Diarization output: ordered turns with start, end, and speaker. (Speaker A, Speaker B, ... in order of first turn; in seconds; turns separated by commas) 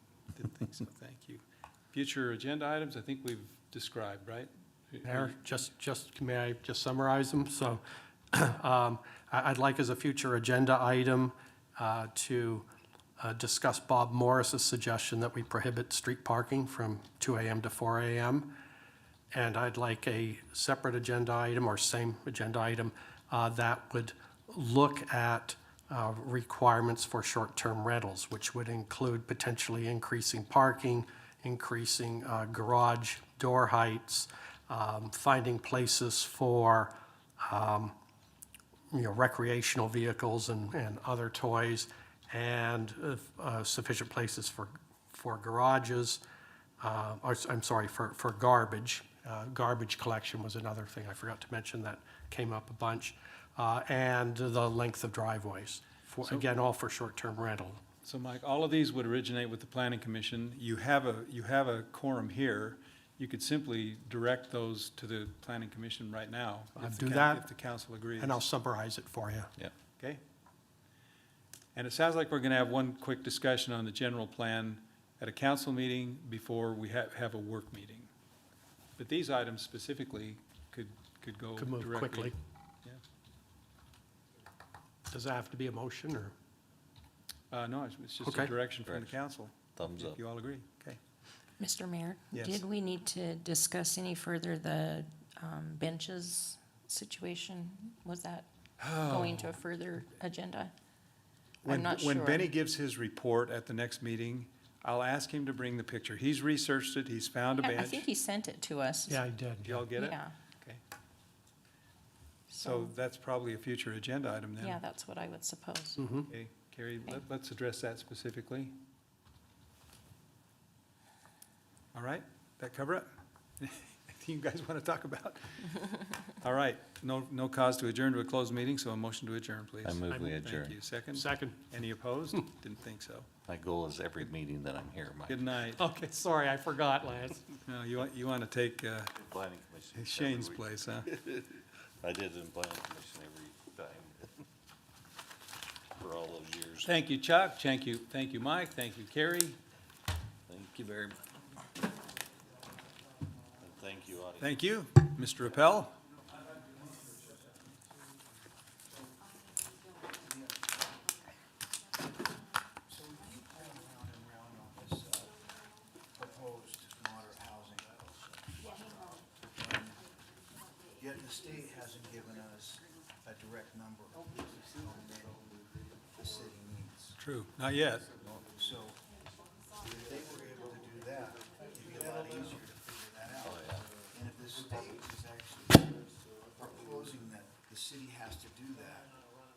Speaker A: 0.3-5.4, Speaker B: 5.0-12.7, Speaker B: 13.2-18.5, Speaker B: 19.3-38.0, Speaker B: 38.9-46.2, Speaker B: 46.8-57.8, Speaker A: 58.0-68.4, Speaker B: 66.8-67.5, Speaker B: 68.2-69.5, Speaker A: 71.8-78.1, Speaker A: 79.0-82.3, Speaker B: 81.6-82.3, Speaker B: 85.1-86.3, Speaker A: 87.5-91.0, Speaker B: 88.2-88.5, Speaker C: 88.8-89.1, Speaker C: 89.7-90.2, Speaker D: 91.6-98.5, Speaker A: 92.3-92.6, Speaker A: 98.8-99.6, Speaker D: 99.0-100.7, Speaker A: 101.6-108.0, Speaker D: 101.7-102.5, Speaker D: 107.6-109.2, Speaker B: 109.1-109.9, Speaker A: 109.7-110.8, Speaker D: 110.0-110.3, Speaker D: 112.5-112.9, Speaker A: 112.6-114.8, Speaker D: 114.6-116.0, Speaker B: 116.0-116.3, Speaker A: 116.3-118.8, Speaker A: 121.9-123.1, Speaker A: 123.6-133.3, Speaker C: 129.8-130.8, Speaker B: 131.1-131.6, Speaker C: 133.4-135.5, Speaker A: 135.3-135.8, Speaker B: 135.8-137.5, Speaker A: 137.6-139.1, Speaker C: 139.2-144.3, Speaker A: 139.9-141.1, Speaker C: 146.0-146.9, Speaker A: 146.8-149.6, Speaker C: 150.5-151.2, Speaker C: 153.6-154.6, Speaker A: 154.4-155.9, Speaker E: 162.9-165.3, Speaker E: 166.2-170.0, Speaker E: 171.0-175.4, Speaker E: 176.2-177.1, Speaker A: 177.2-178.1, Speaker E: 178.5-179.0, Speaker E: 179.8-186.0, Speaker C: 183.4-183.9, Speaker E: 186.6-189.1